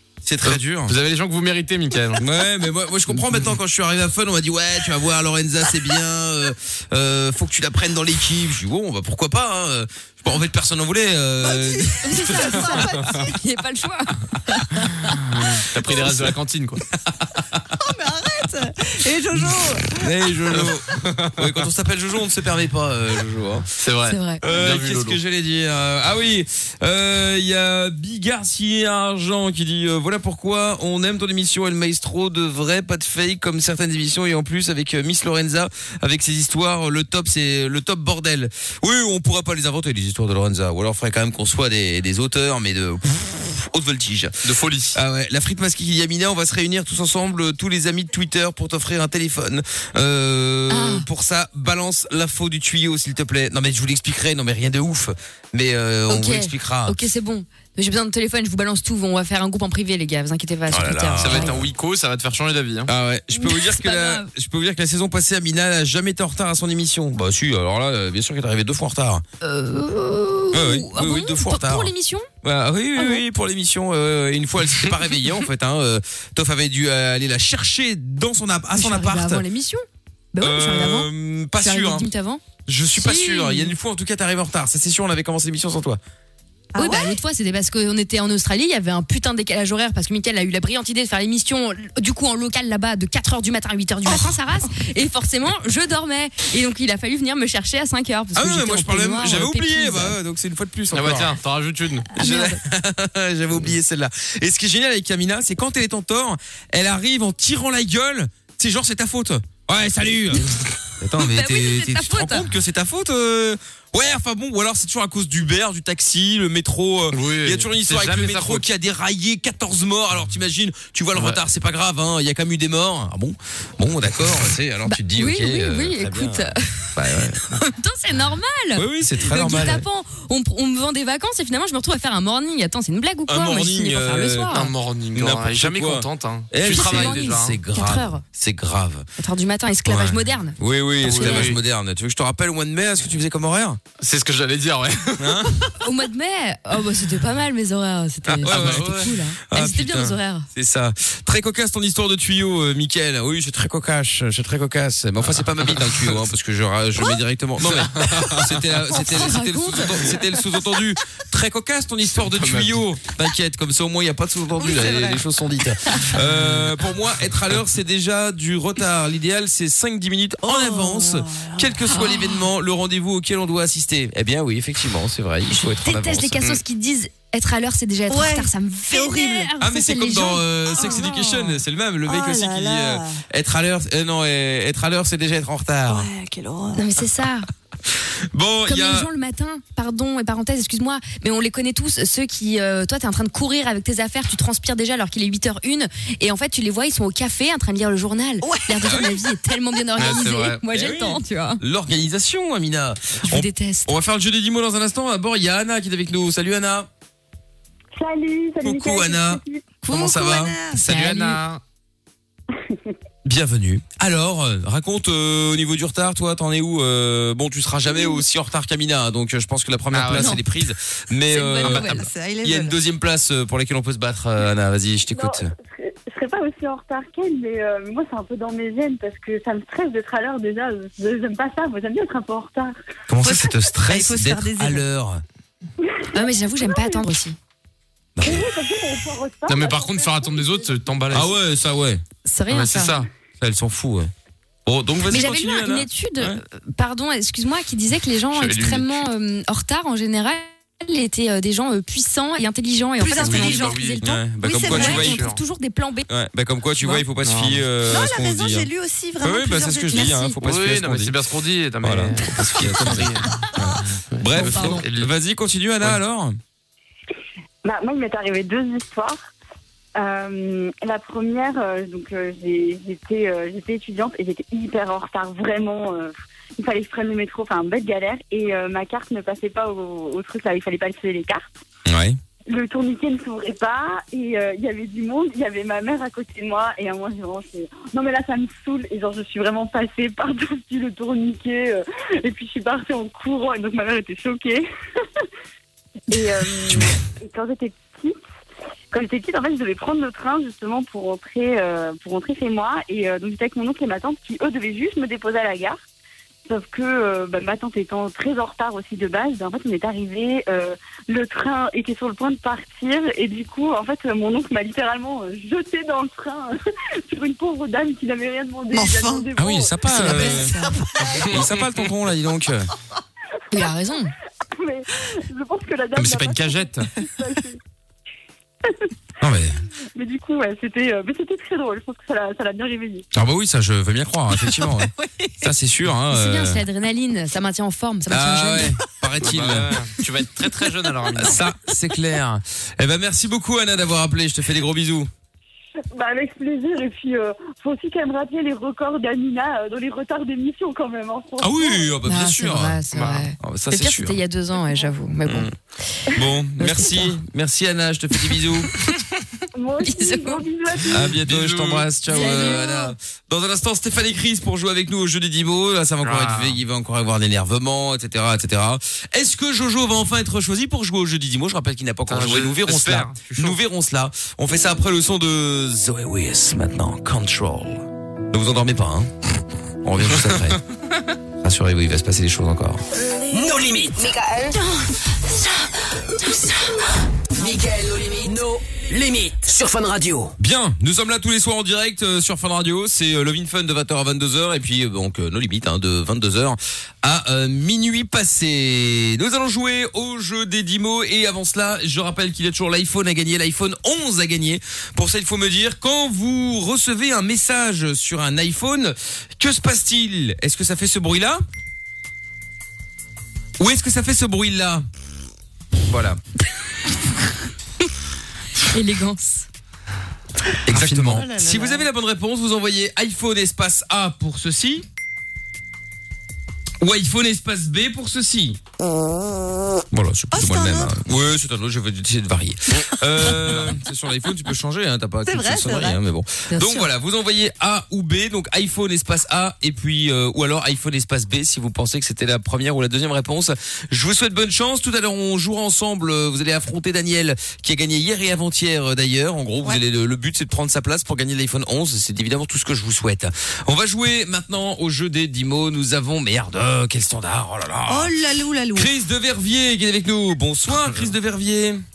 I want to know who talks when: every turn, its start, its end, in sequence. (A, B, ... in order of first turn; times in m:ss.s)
0:00.2-0:00.9 A
0:00.4-0:02.2 B
0:02.2-0:12.8 A
0:11.4-0:13.4 C
0:12.0-0:15.2 D
0:15.5-0:16.8 B
0:15.9-0:16.3 A
0:17.1-0:17.7 A
0:17.8-0:20.1 C
0:19.9-0:23.6 A
0:20.5-0:21.5 B
0:23.8-0:25.2 B
0:24.1-0:24.4 D
0:24.4-0:44.3 A
0:44.4-0:45.0 B
0:44.9-0:57.0 A
0:50.7-0:51.1 D
0:56.1-1:01.6 D
1:00.7-1:01.7 A
1:01.2-1:02.9 B
1:02.9-1:09.2 A
1:03.3-1:04.3 D
1:09.4-1:12.3 D
1:10.5-1:11.9 A
1:12.4-1:19.4 A
1:13.0-1:13.2 D
1:18.7-1:22.4 D
1:20.4-1:22.1 A
1:22.6-1:26.0 A
1:23.0-1:23.7 D
1:26.7-1:27.2 C
1:26.8-1:40.2 D
1:38.3-1:41.3 A
1:40.9-1:42.1 B
1:42.1-1:42.6 D
1:42.1-1:50.5 A
1:51.0-2:07.4 A
1:51.1-1:52.5 D
1:57.1-1:58.6 B
2:01.1-2:01.4 B
2:04.8-2:06.9 D
2:07.5-2:14.7 D
2:08.7-2:09.8 A
2:13.3-2:14.6 A
2:14.5-2:17.6 B
2:15.1-2:19.1 A
2:16.6-2:18.2 D
2:19.2-2:21.5 D
2:19.9-2:23.8 A
2:21.0-2:21.6 B
2:24.0-2:25.7 B
2:25.2-2:25.6 A
2:25.8-2:30.5 D
2:28.3-2:56.4 A
2:28.5-2:29.1 B
2:35.2-2:36.1 B
2:37.6-2:38.7 B
2:38.9-2:40.2 D
2:42.2-2:42.8 B
2:44.6-2:45.2 C
2:46.2-2:46.7 B
2:50.4-2:51.8 C
2:51.9-2:52.4 D
2:55.5-3:01.0 D
2:58.1-2:59.5 C
2:59.6-3:06.1 A
3:00.7-3:03.2 C
3:05.9-3:06.8 C
3:06.7-3:07.5 D
3:08.3-3:09.1 A
3:08.6-3:21.6 D
3:18.4-3:19.2 C
3:20.0-3:20.6 B
3:20.7-3:26.9 A
3:23.3-3:23.9 D
3:28.0-3:29.8 E
3:28.6-3:30.9 A
3:29.8-3:30.8 C
3:30.8-3:31.4 D
3:30.8-3:31.6 B
3:33.2-3:45.5 A
3:39.9-3:40.4 B
3:40.2-3:40.4 D
3:41.3-3:42.1 D
3:41.6-3:42.8 C
3:45.1-3:52.7 E
3:53.1-3:55.2 A
3:53.2-3:54.8 C
3:55.8-3:57.0 E
3:56.1-3:57.4 D
3:58.2-3:58.5 A
3:58.2-4:00.7 E
3:59.5-4:01.3 B
4:01.1-4:02.0 A
4:02.2-4:03.0 D
4:02.5-4:03.1 B
4:03.4-4:04.1 A
4:04.6-4:06.4 A
4:05.1-4:16.1 D
4:08.3-4:09.0 B
4:13.0-4:13.8 C
4:13.2-4:14.0 B
4:14.0-4:15.3 A
4:14.4-4:15.2 C
4:14.8-4:15.4 B
4:16.1-4:18.7 A
4:17.2-4:17.6 B
4:17.8-4:20.2 C
4:19.2-4:21.2 A
4:19.9-4:20.4 D
4:20.4-4:23.5 B
4:21.8-4:26.4 A
4:24.1-4:25.1 B
4:24.4-4:24.8 D
4:27.6-4:29.2 E
4:29.9-4:41.5 E
4:41.8-4:42.2 A
4:42.5-4:54.6 E
4:56.1-4:58.2 E
4:58.9-5:05.8 E
5:06.5-5:16.6 E
5:17.1-5:20.2 E
5:18.7-5:19.3 C
5:19.4-5:20.6 A
5:19.9-5:20.7 D
5:20.6-5:21.2 C
5:21.2-5:21.9 B
5:21.2-5:22.7 A
5:23.5-5:24.1 D
5:24.5-5:27.6 E
5:26.0-5:26.9 B
5:29.2-5:29.6 A
5:29.9-5:33.0 E
5:33.1-5:36.6 A
5:34.3-5:35.5 C
5:36.1-5:38.8 D
5:38.1-5:39.9 A
5:39.2-5:41.4 B
5:41.1-5:45.1 A
5:45.9-5:52.0 E
5:51.4-5:52.8 A
5:52.0-5:55.5 D
5:52.9-5:53.2 B
5:53.4-5:54.2 A
5:55.2-5:55.5 A
5:56.1-5:58.7 A
5:56.6-5:57.2 D
5:59.5-6:01.1 E
5:59.8-6:00.4 D
6:00.9-6:19.1 A
6:01.2-6:01.9 B
6:02.1-6:02.8 D
6:02.1-6:02.8 E
6:06.0-6:06.6 B
6:12.1-6:13.6 B
6:19.8-6:20.6 A
6:20.0-6:20.6 B
6:21.4-6:22.8 A
6:23.3-6:24.2 F
6:27.3-6:30.3 F
6:30.4-6:51.4 A
6:53.6-6:54.8 A
6:55.8-6:56.2 A
6:58.6-6:59.5 D
7:00.6-7:04.8 A
7:00.7-7:01.2 B
7:00.8-7:01.9 C
7:06.8-7:08.6 A
7:09.9-7:38.1 A
7:10.3-7:10.9 C
7:13.4-7:13.7 B
7:15.2-7:16.0 C
7:16.5-7:16.9 D
7:37.9-7:38.9 C
7:38.7-7:41.8 A